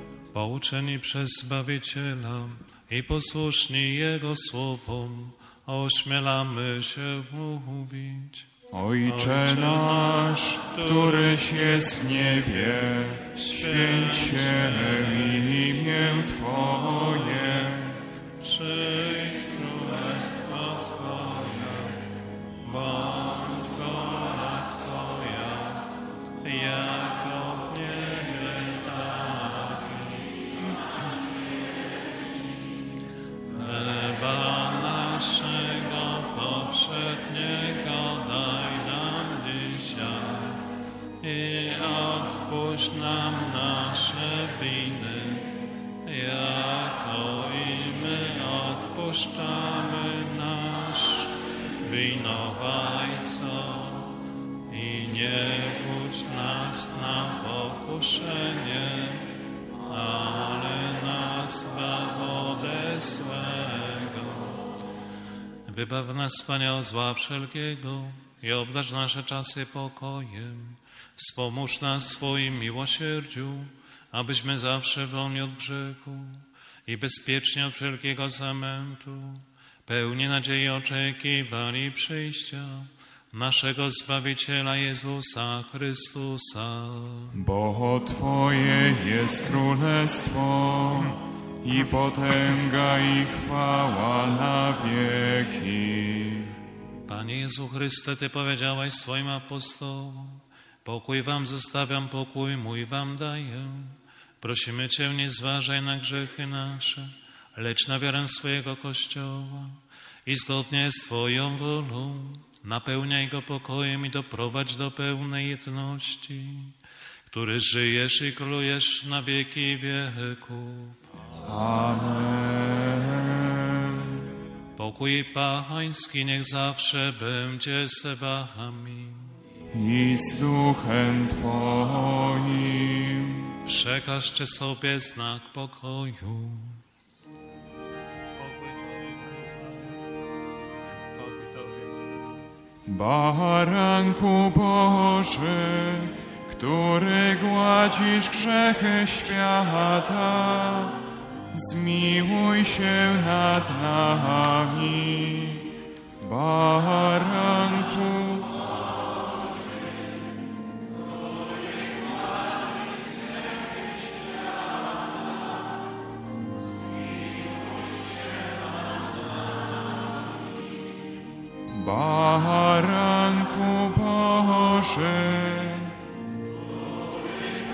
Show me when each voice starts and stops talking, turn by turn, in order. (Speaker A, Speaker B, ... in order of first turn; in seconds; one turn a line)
Speaker A: 0.3-8.5
Speaker B: 8.7-18.0
Speaker A: 9.0-11.6
Speaker A: 13.3-15.4
Speaker A: 17.2-17.5
Speaker A: 18.4-22.0
Speaker A: 22.6-25.9
Speaker A: 26.4-30.7
Speaker A: 33.5-40.6
Speaker A: 41.2-45.5
Speaker A: 46.0-54.1
Speaker A: 54.7-64.6
Speaker A: 65.7-87.3
Speaker B: 87.3-96.5
Speaker A: 97.1-116.7
Speaker A: 117.3-121.0
Speaker B: 121.4-124.2
Speaker A: 124.8-129.3
Speaker B: 129.7-133.5
Speaker A: 133.6-136.8
Speaker A: 138.4-139.9
Speaker A: 141.1-142.2
Speaker B: 142.8-151.0
Speaker B: 151.5-158.5
Speaker B: 171.7-176.0